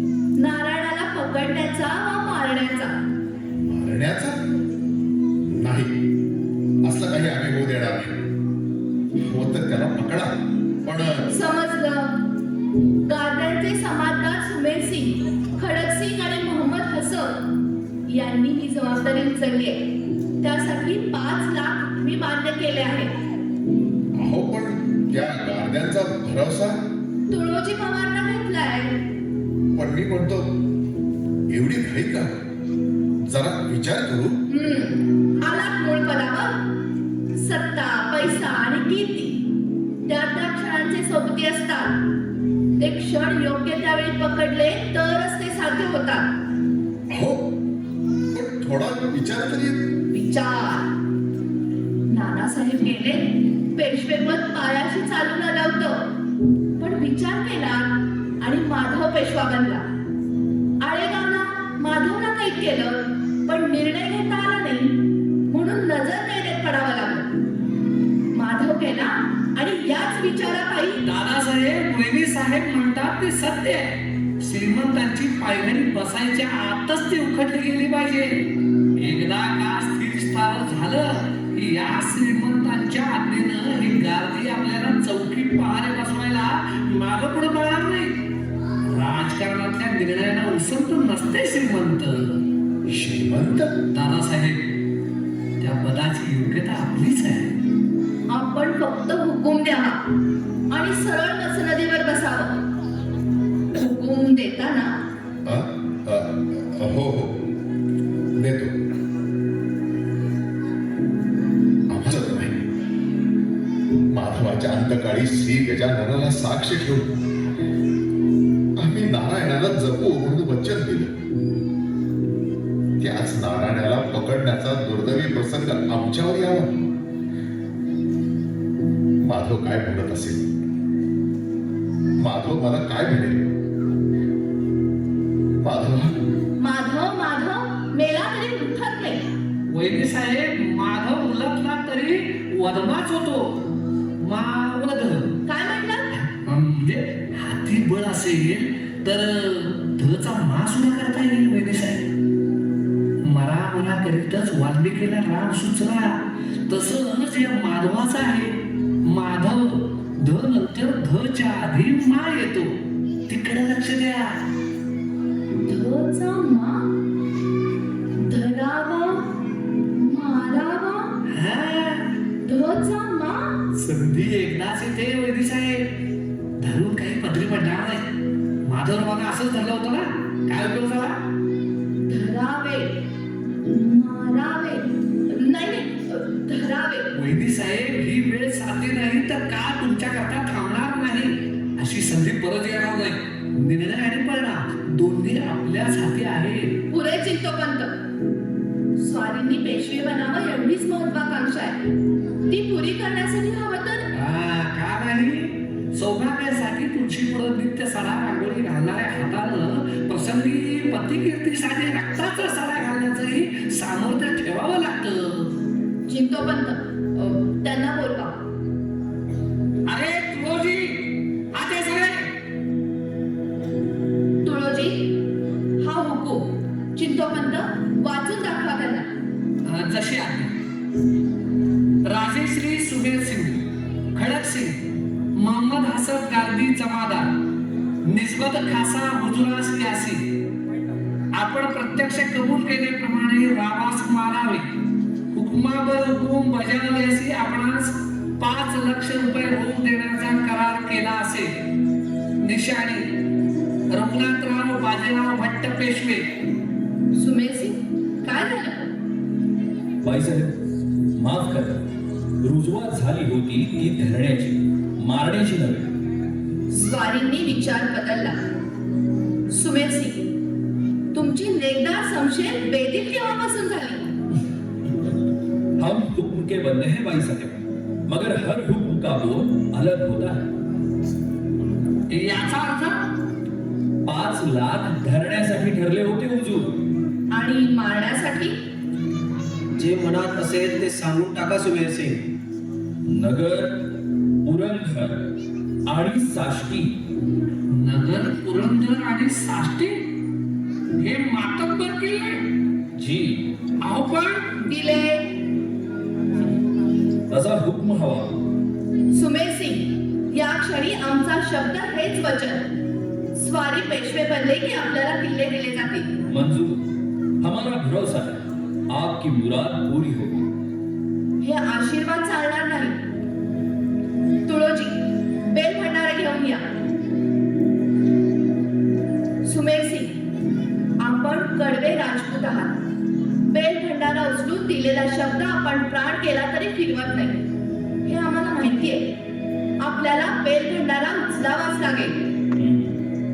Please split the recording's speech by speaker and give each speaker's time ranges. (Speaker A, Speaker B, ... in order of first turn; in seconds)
Speaker A: 0.4-2.9, 11.3-12.1, 13.1-17.4, 18.1-19.8, 20.4-23.1, 27.3-28.9, 34.5-36.5, 37.3-39.4, 40.0-41.9, 42.8-46.3, 50.1-50.9, 52.1-53.2, 53.7-56.0, 56.8-57.9, 58.4-59.8, 60.8-65.0, 65.5-67.3, 68.3-71.0, 98.3-100.0, 100.7-102.5, 103.7-104.9, 136.6-139.2, 145.4-146.1, 165.5-166.8, 168.1-169.2, 169.9-171.1, 172.4-173.5, 182.1-182.9, 183.6-187.1, 196.9-197.9, 199.0-201.8, 202.5-204.1, 216.1-218.3, 224.4-225.1, 225.8-229.1, 257.1-258.9, 266.7-268.4, 269.5-270.3, 271.1-274.1, 287.3-288.6, 304.6-305.2, 309.1-312.6, 313.3-316.1, 321.4-323.0, 324.4-326.6, 329.4-330.1, 331.0-332.7, 333.5-337.4, 338.0-339.1, 339.8-342.2
Speaker B: 3.6-4.3, 5.4-5.9, 6.8-8.2, 9.2-10.3, 10.8-11.2, 24.1-26.8, 29.7-30.5, 31.5-32.3, 33.2-34.3, 47.1-47.4, 48.3-49.8, 92.9-93.7, 105.4-107.3, 108.3-108.7, 111.9-112.6, 114.1-117.1, 118.8-121.1, 123.0-126.7, 129.2-130.5, 132.2-133.5, 135.6-136.1
Speaker C: 71.0-78.4, 79.0-88.2, 88.8-92.4, 93.9-94.7, 95.6-97.5, 139.7-143.6, 144.2-145.3, 146.4-152.1, 153.2-162.7, 163.3-164.4, 171.3-172.0, 173.7-175.9, 176.6-178.1, 178.7-181.2, 187.1-196.7, 204.1-215.5, 219.9-222.3, 229.7-230.5, 232.1-233.6, 234.1-234.8, 235.3-237.3, 238.1-240.2, 241.3-244.7, 245.3-251.5, 252.4-253.0, 253.9-256.2, 282.1-283.0, 297.7-300.0, 301.0-302.4, 303.8-304.5
Speaker D: 260.0-260.5, 261.1-261.8, 262.4-265.9, 275.8-280.4, 284.1-286.8, 293.0-293.7, 294.4-295.3, 295.9-296.9, 302.9-303.4, 307.3-308.4, 316.3-316.8, 317.4-320.5, 342.6-342.9
Speaker E: 289.7-292.2